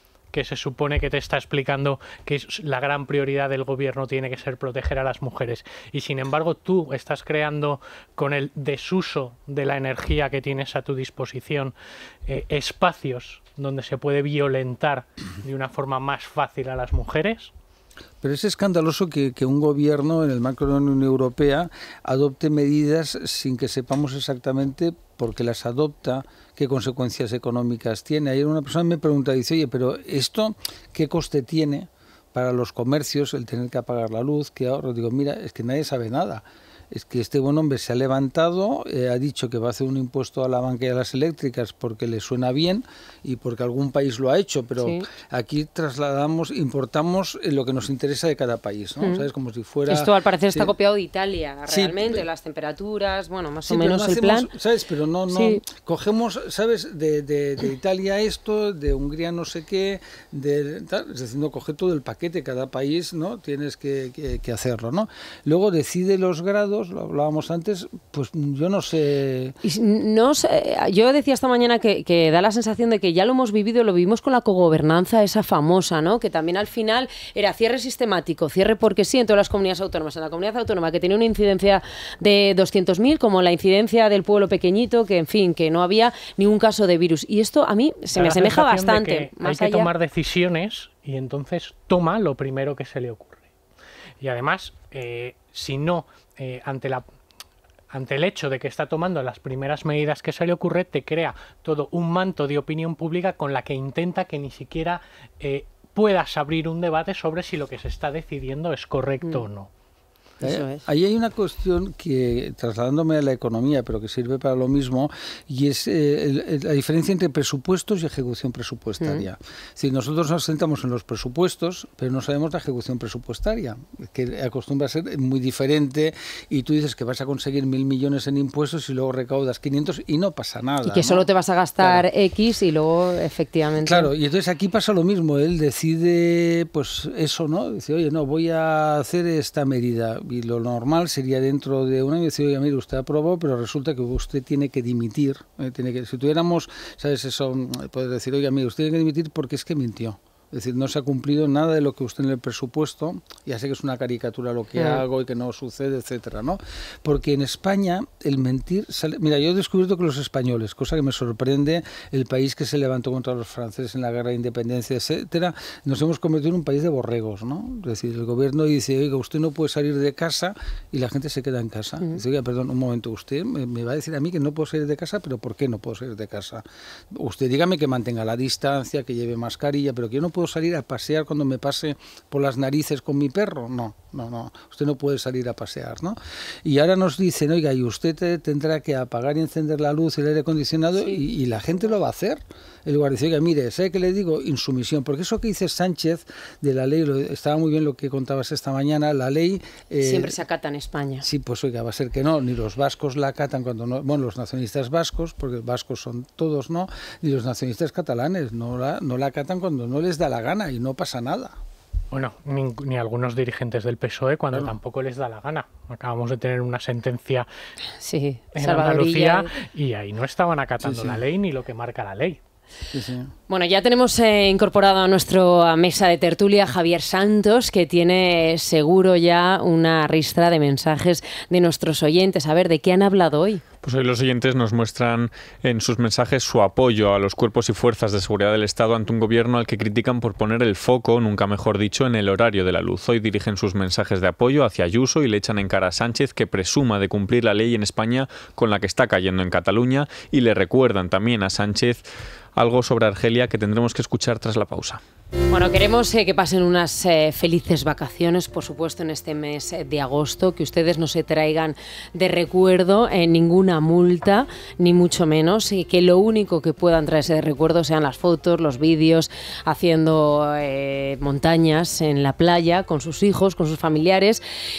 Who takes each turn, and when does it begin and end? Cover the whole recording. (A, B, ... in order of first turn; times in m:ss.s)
0:00.3-0:11.7 A
0:12.3-0:17.5 A
0:18.2-0:50.7 B
0:49.9-0:54.5 C
0:51.7-0:52.2 B
0:53.7-1:09.6 B
0:55.3-0:55.6 C
1:09.6-1:29.9 C
1:28.2-1:33.5 A
1:34.2-1:37.0 A
1:37.9-1:49.7 A
1:50.4-2:11.2 B
1:50.4-1:50.8 C
1:59.0-1:59.2 C
2:10.8-2:14.1 C
2:11.8-2:12.0 B
2:13.8-3:20.4 B
2:34.8-2:35.0 C
3:11.0-3:11.2 C
3:20.0-3:21.2 C
3:21.2-3:31.6 B
3:32.1-3:37.5 A
3:38.0-3:39.5 C
3:38.5-3:42.4 A
3:40.8-3:41.2 B
3:42.9-3:43.3 B
3:43.5-3:53.6 C
3:53.8-4:15.0 D
4:15.5-4:34.4 C